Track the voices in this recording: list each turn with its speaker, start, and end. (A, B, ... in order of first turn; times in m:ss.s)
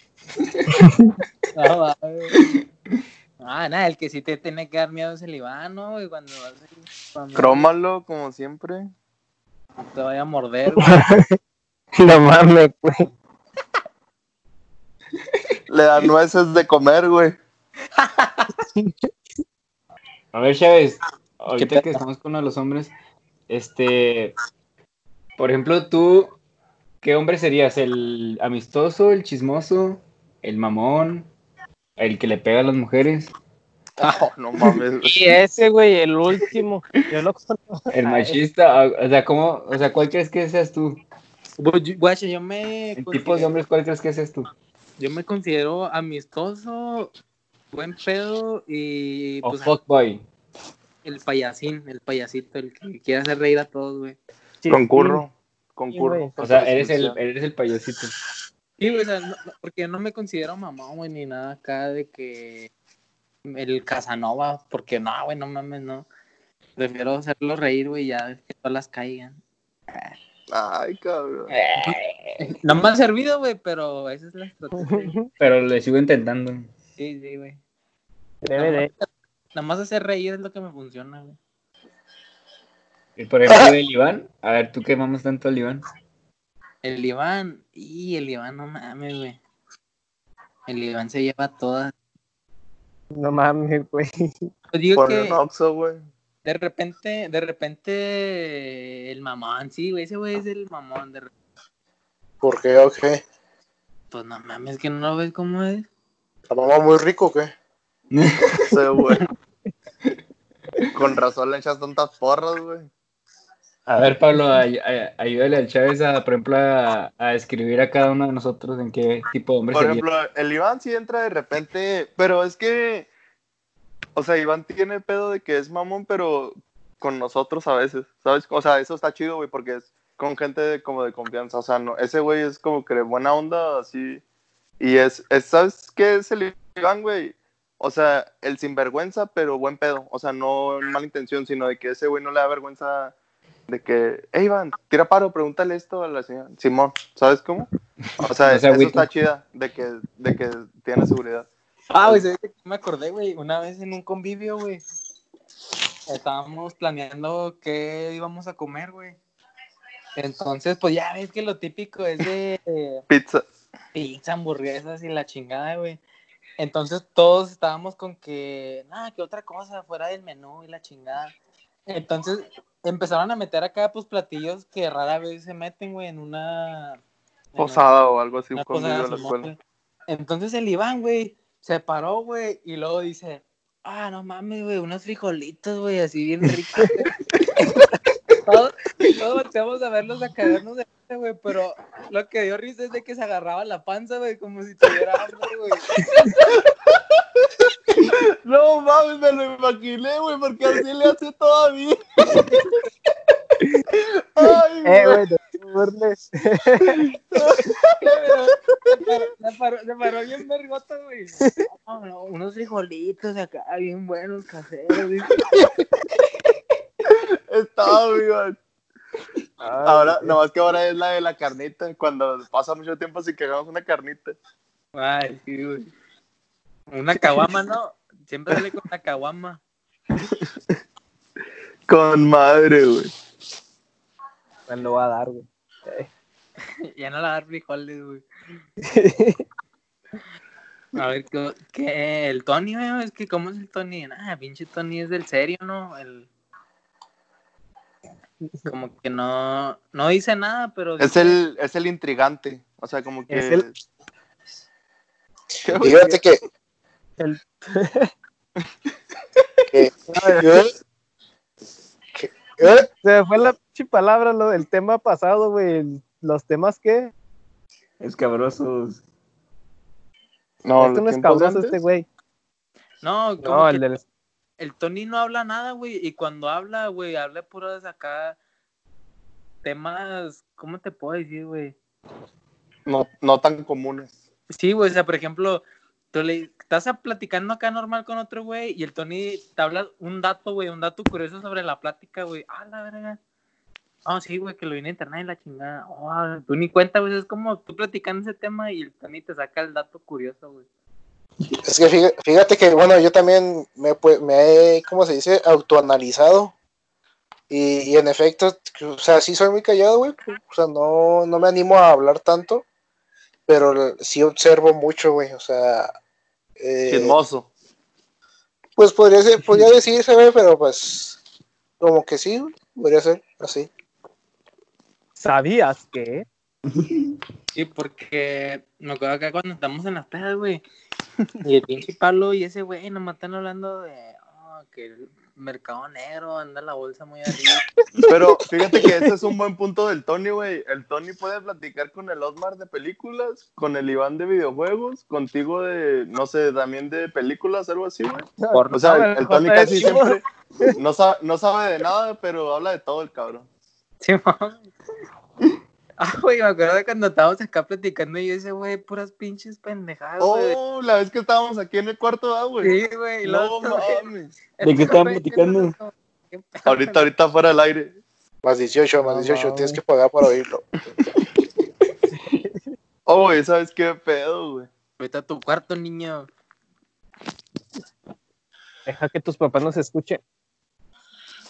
0:01.6-0:02.6 A
0:03.4-0:07.7 A
0:07.4-0:08.9 B
0:09.8-0:11.1 A
0:10.8-0:11.4 C
0:12.0-0:13.1 C
0:15.7-0:17.4 B
0:18.0-0:18.4 A
0:20.3-0:22.9 D
0:21.6-0:21.8 A
0:23.5-0:24.3 D
0:25.4-0:26.4 D
0:27.0-0:31.3 D
0:32.0-0:33.3 D
0:34.0-0:35.3 B
0:35.0-0:37.9 C
0:37.9-0:41.0 D
0:38.0-0:38.3 A
0:41.6-0:43.5 A
0:43.0-0:44.5 D
0:45.0-0:47.1 A
0:47.7-0:49.7 A
0:49.4-0:50.2 D
0:51.0-0:54.2 A
0:54.6-0:55.3 C
0:54.7-0:57.2 B
0:55.9-0:56.3 C
0:56.4-0:58.1 D
0:58.8-1:02.7 A
1:03.4-1:06.1 A
1:06.8-1:09.4 A
1:10.5-1:11.5 B
1:11.5-1:15.1 A
1:11.6-1:12.6 D
1:14.8-1:15.3 C
1:15.4-1:16.7 D
1:17.0-1:17.6 A
1:18.4-1:18.9 C
1:18.6-1:21.4 A
1:23.2-1:25.8 D
1:26.8-1:29.4 A
1:30.7-1:31.9 A
1:33.1-1:34.5 C
1:34.7-1:35.4 A
1:35.0-1:36.1 B
1:36.4-1:41.3 A
1:42.4-1:43.2 E
1:44.1-1:45.9 A
1:46.5-1:47.5 E
1:48.1-1:48.8 D
1:48.7-1:49.2 B
1:50.9-1:52.9 B
1:53.9-2:00.1 D
1:59.7-2:03.1 B
2:04.2-2:14.2 B
2:14.8-2:23.1 B
2:23.7-2:31.5 B
2:28.4-2:29.1 D
2:31.9-2:34.8 A
2:36.1-2:39.2 A
2:40.2-2:43.0 A
2:43.1-2:43.4 B
2:44.0-2:46.0 A
2:46.6-2:51.3 A
2:51.9-2:57.0 A
2:57.6-2:57.8 A
2:57.6-2:59.5 B
2:58.5-3:07.1 A
3:08.5-3:15.9 A
3:18.1-3:22.4 B
3:23.9-3:25.2 B
3:24.8-3:27.0 C
3:27.3-3:28.5 B
3:28.0-3:35.5 A
3:37.1-3:38.6 B
3:39.6-3:40.4 C
3:39.8-3:44.4 B
3:45.0-3:45.9 A
3:46.9-3:49.6 A
3:51.9-3:53.1 B
3:54.7-3:56.1 C
3:56.8-3:58.2 A
3:58.8-3:59.4 C
4:01.0-4:06.3 A
4:08.7-4:11.4 A
4:11.0-4:13.7 B
4:13.3-4:13.7 C
4:15.6-4:16.2 B
4:15.7-4:16.4 E
4:17.2-4:18.1 C
4:19.7-4:20.7 E
4:20.1-4:20.4 C
4:22.2-4:22.8 E
4:22.6-4:27.1 C
4:28.0-4:29.0 D
4:30.6-4:31.8 B
4:30.8-4:32.0 C
4:33.0-4:34.0 A
4:33.4-4:34.0 C
4:34.6-4:38.4 A
4:39.6-4:41.8 A
4:42.9-4:44.1 B
4:44.5-4:53.2 A
4:54.1-5:00.6 A
5:01.7-5:06.5 E
5:07.5-5:12.6 E
5:13.5-5:15.9 E
5:16.6-5:17.2 E
5:16.9-5:17.5 B
5:18.8-5:21.2 E
5:21.8-5:23.7 E
5:25.2-5:26.3 C
5:26.7-5:27.2 D
5:27.6-5:30.6 A
5:31.4-5:37.6 A
5:38.1-5:50.2 B
5:48.4-5:50.7 C
5:48.5-5:48.9 A
5:50.8-5:53.5 B
5:54.0-5:54.7 A
5:56.0-6:00.6 A
6:00.2-6:04.3 B
6:02.6-6:04.0 A
6:04.6-6:07.0 A
6:04.6-6:05.7 D
6:06.7-6:08.0 B
6:08.4-6:10.6 E
6:09.0-6:09.8 C
6:13.1-6:14.7 B
6:15.0-6:16.3 A
6:18.9-6:20.2 C